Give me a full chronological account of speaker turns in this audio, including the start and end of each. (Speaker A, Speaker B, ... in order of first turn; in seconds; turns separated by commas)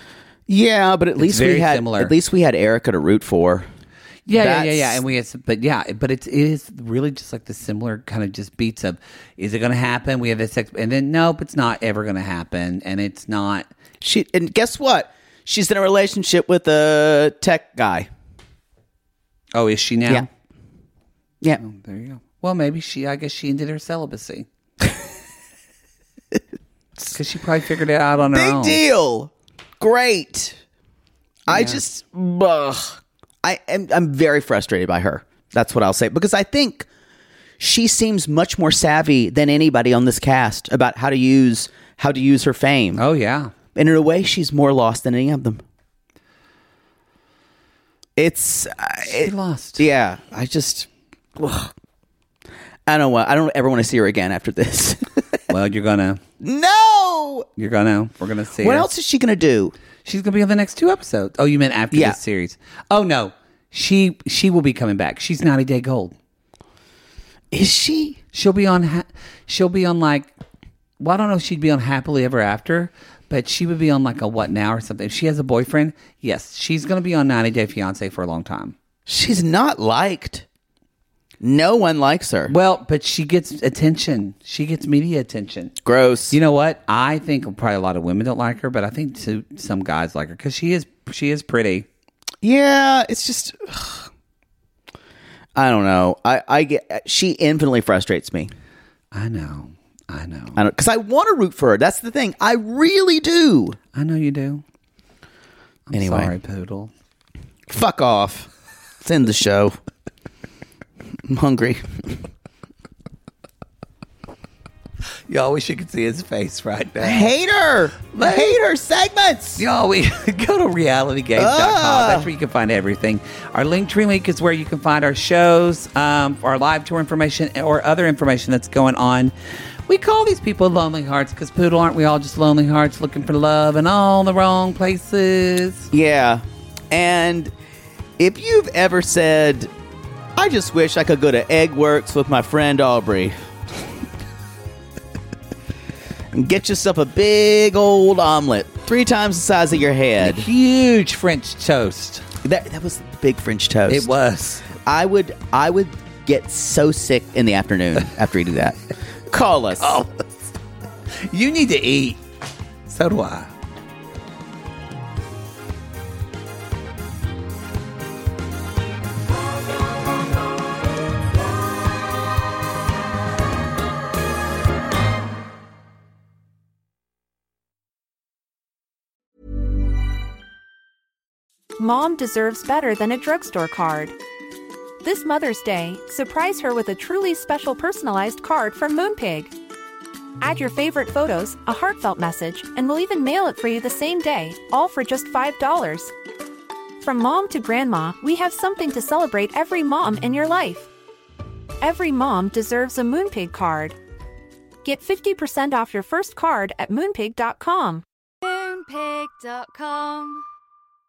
Speaker A: 0.5-3.7, Speaker B: 1.2-2.1, Speaker B: 4.2-13.7, Speaker A: 4.3-5.0, Speaker A: 14.0-18.1, Speaker B: 19.5-20.2, Speaker B: 21.6-24.5, Speaker B: 27.0-28.8, Speaker A: 28.3-30.6, Speaker A: 31.5-36.9, Speaker B: 31.5-31.8, Speaker A: 37.6-43.0, Speaker B: 43.0-43.5, Speaker A: 43.7-45.6, Speaker A: 48.1-51.7, Speaker B: 49.1-49.8, Speaker A: 52.9-55.4, Speaker B: 55.5-56.2, Speaker A: 56.4-57.5, Speaker B: 57.6-58.9, Speaker A: 58.6-59.7, Speaker B: 60.0-66.1, Speaker A: 61.9-62.2, Speaker A: 67.5-68.2, Speaker B: 68.3-70.3, Speaker B: 71.0-78.7, Speaker A: 79.0-80.5, Speaker A: 81.4-82.5, Speaker B: 82.5-85.7, Speaker A: 85.8-86.4, Speaker B: 86.3-91.9, Speaker A: 92.4-94.1, Speaker A: 95.5-98.5, Speaker B: 99.1-100.6, Speaker A: 100.5-103.8, Speaker B: 103.9-104.6, Speaker B: 105.9-106.9, Speaker A: 105.9-106.3, Speaker A: 107.7-108.5, Speaker A: 109.0-109.8, Speaker A: 111.2-112.2, Speaker B: 115.3-117.3, Speaker A: 117.0-119.6, Speaker B: 118.1-118.4, Speaker B: 119.6-129.3, Speaker A: 121.3-122.3, Speaker B: 129.9-135.9, Speaker A: 135.9-137.5, Speaker A: 138.2-139.7, Speaker A: 140.3-143.4, Speaker A: 146.3-150.4, Speaker B: 150.2-152.2, Speaker A: 152.4-154.1, Speaker B: 153.9-154.6, Speaker A: 154.8-160.0, Speaker B: 159.8-160.1, Speaker B: 161.3-162.2, Speaker B: 162.9-163.5, Speaker C: 181.8-184.2, Speaker C: 185.0-189.5, Speaker C: 190.4-196.1, Speaker C: 197.0-200.9, Speaker C: 201.8-204.0, Speaker C: 204.8-208.0, Speaker D: 208.4-210.4